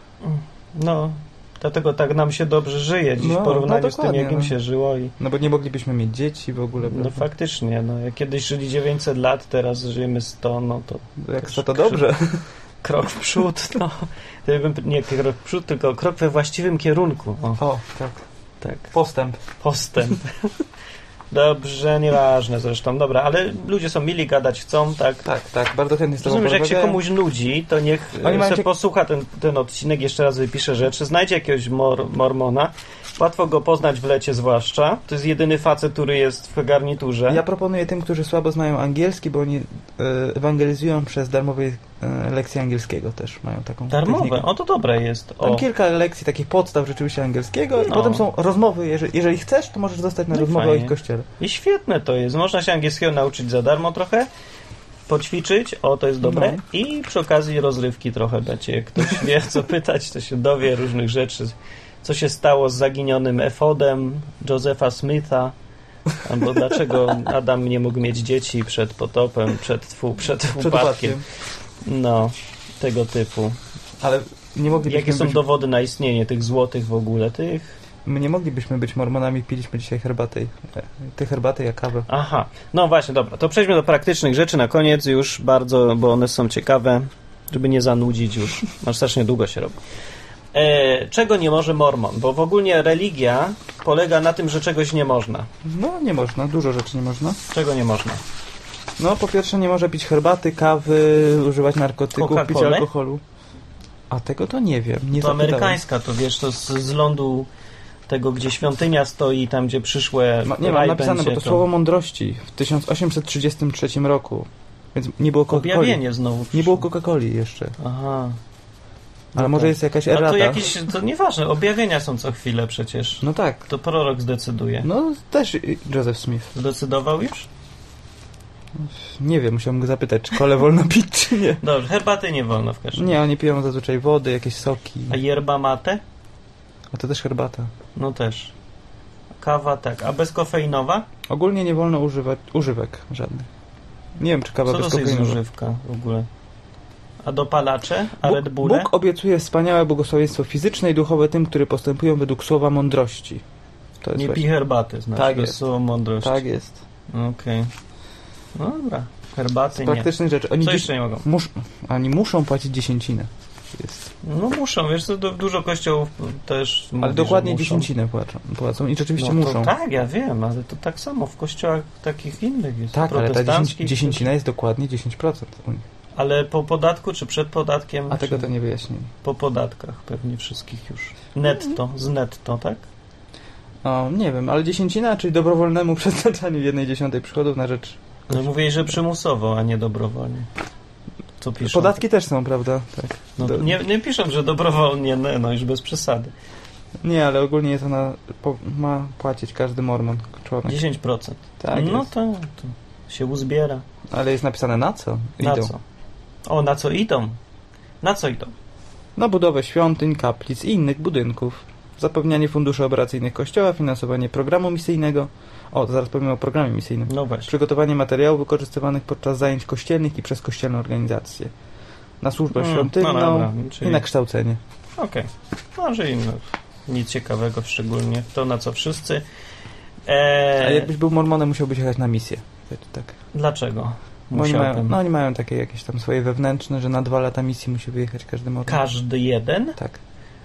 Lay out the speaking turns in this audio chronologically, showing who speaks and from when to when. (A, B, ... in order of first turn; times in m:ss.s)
0:00.2-0:05.1 A
0:03.2-0:04.6 B
0:05.2-0:07.2 B
0:06.8-0:12.1 A
0:11.2-0:12.4 B
0:12.8-0:17.6 A
0:17.6-0:18.2 B
0:18.6-0:18.9 A
0:18.9-0:19.4 B
0:19.6-0:20.5 A
0:21.3-0:25.3 A
0:25.2-0:27.0 B
0:26.2-0:37.4 A
0:28.2-0:28.7 B
0:37.3-0:44.5 B
0:43.9-0:45.6 A
0:45.4-0:51.3 B
0:47.8-0:48.3 A
0:50.3-0:54.3 A
0:55.1-1:05.5 A
0:56.2-0:56.6 B
1:06.2-1:11.2 A
1:10.6-1:11.2 B
1:11.8-1:13.6 A
1:14.0-1:15.4 B
1:14.9-1:17.8 A
1:18.0-1:22.1 B
1:22.1-1:29.8 A
1:30.5-1:35.5 A
1:35.6-1:37.4 B
1:37.5-1:38.2 A
1:39.0-1:43.2 B
1:42.1-1:42.9 A
1:44.1-1:45.8 B
1:45.1-1:47.5 A
1:48.1-1:51.6 A
1:50.4-1:56.0 B
1:55.5-1:56.8 A
1:56.5-1:57.8 B
1:57.8-1:58.4 A
1:59.3-2:00.8 B
1:59.4-2:04.9 A
2:03.2-2:03.6 B
2:04.8-2:06.5 B
2:06.5-2:07.5 A
2:08.8-2:11.6 B
2:11.6-2:13.2 A
2:13.0-2:15.2 B
2:15.1-2:16.0 A
2:16.9-2:17.7 B
2:18.0-2:18.5 A
2:19.4-2:21.1 A
2:21.3-2:23.5 B
2:24.2-2:25.4 B
2:24.7-2:26.3 A
2:27.2-2:28.9 A
2:28.2-2:33.4 B
2:34.0-2:34.4 B
2:34.1-2:36.4 A
2:35.1-2:35.6 B
2:36.2-2:36.8 B
2:37.1-2:37.7 A
2:38.6-2:41.3 A
2:39.8-2:44.1 B
2:44.2-2:47.9 A
2:47.0-2:49.7 B
2:49.2-2:54.3 A
2:52.9-2:55.8 B
2:56.2-2:58.5 A
2:58.1-2:59.1 B
2:59.2-3:02.9 A
3:03.8-3:08.4 B
3:08.3-3:10.5 A
3:11.4-3:12.0 A
3:11.6-3:13.8 B
3:13.4-3:16.3 A
3:17.0-3:20.8 B
3:20.7-3:23.8 A
3:21.6-3:22.1 B
3:24.1-3:25.7 B
3:25.4-3:25.8 A
3:26.4-3:27.4 A
3:28.0-3:28.5 A
3:29.2-3:41.5 B
3:37.1-3:37.5 A
3:42.2-3:44.6 B
3:42.5-3:44.0 A
3:45.0-3:49.2 A
3:50.0-3:50.9 A
3:50.6-3:53.1 B
3:53.3-3:55.0 A
3:54.3-3:58.8 B
3:58.7-3:59.8 A